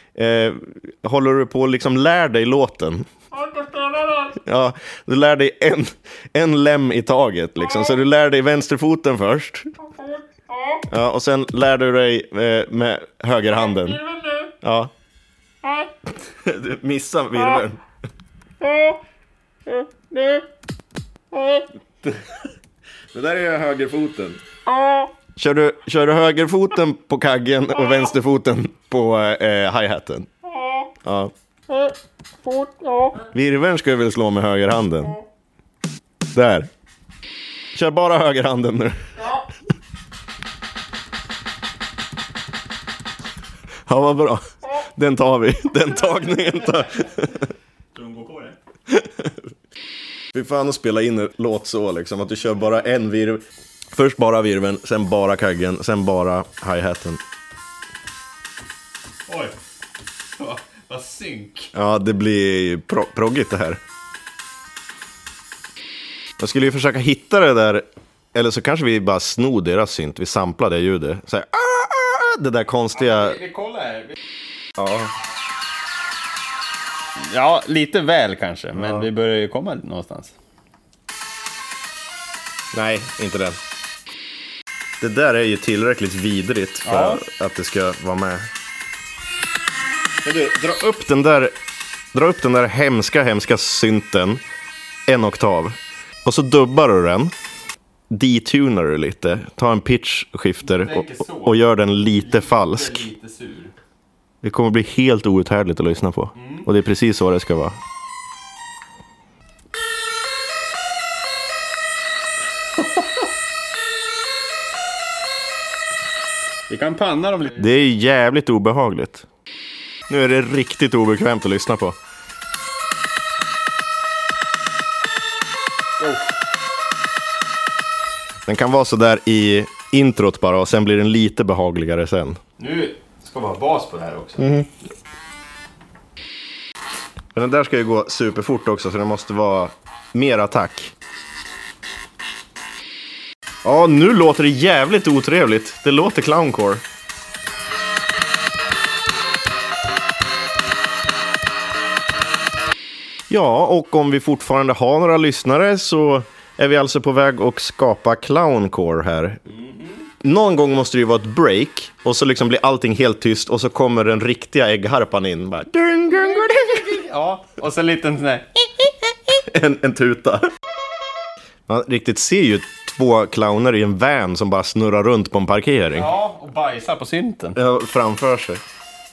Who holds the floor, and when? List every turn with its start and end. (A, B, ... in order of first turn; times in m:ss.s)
0:00.1-0:03.1 A
0:03.9-0:04.2 B
0:04.3-0:09.8 A
0:10.8-0:14.9 A
0:16.2-0:17.8 A
0:23.1-0:24.4 A
0:25.4-0:30.3 A
0:31.0-0:31.3 A
0:33.1-0:35.2 A
0:36.3-0:36.7 A
0:37.7-0:39.4 A
0:43.8-0:47.5 A
0:47.9-0:48.6 B
0:48.9-0:49.5 A
0:50.3-0:53.4 A
0:53.9-0:57.2 A
0:59.3-0:59.6 B
1:00.4-1:01.7 B
1:01.7-1:03.8 A
1:06.4-1:13.4 A
1:12.9-1:14.2 B
1:14.8-1:15.1 A
1:17.2-1:20.3 B
1:18.7-1:19.1 A
1:22.7-1:23.6 A
1:25.0-1:28.5 A
1:26.8-1:27.2 B
1:30.2-1:31.5 A
1:32.1-1:34.4 A
1:35.1-1:37.3 A
1:38.1-1:43.1 A
1:40.6-1:41.6 B
1:42.1-1:43.7 B
1:44.4-1:47.8 A
1:46.4-1:46.7 B
1:52.8-1:53.1 B
1:56.7-1:57.7 B
1:57.5-1:59.2 A
2:00.1-2:02.0 A
2:06.0-2:06.3 B
2:08.4-2:12.4 A
2:12.6-2:14.5 B
2:14.4-2:14.7 A
2:17.3-2:20.9 A
2:23.6-2:26.8 A
2:33.3-2:39.4 A
2:40.2-2:47.0 A
2:46.2-2:48.6 B
2:49.4-2:50.5 A
2:51.7-2:56.1 A
2:55.9-2:57.6 B
2:57.5-2:58.6 A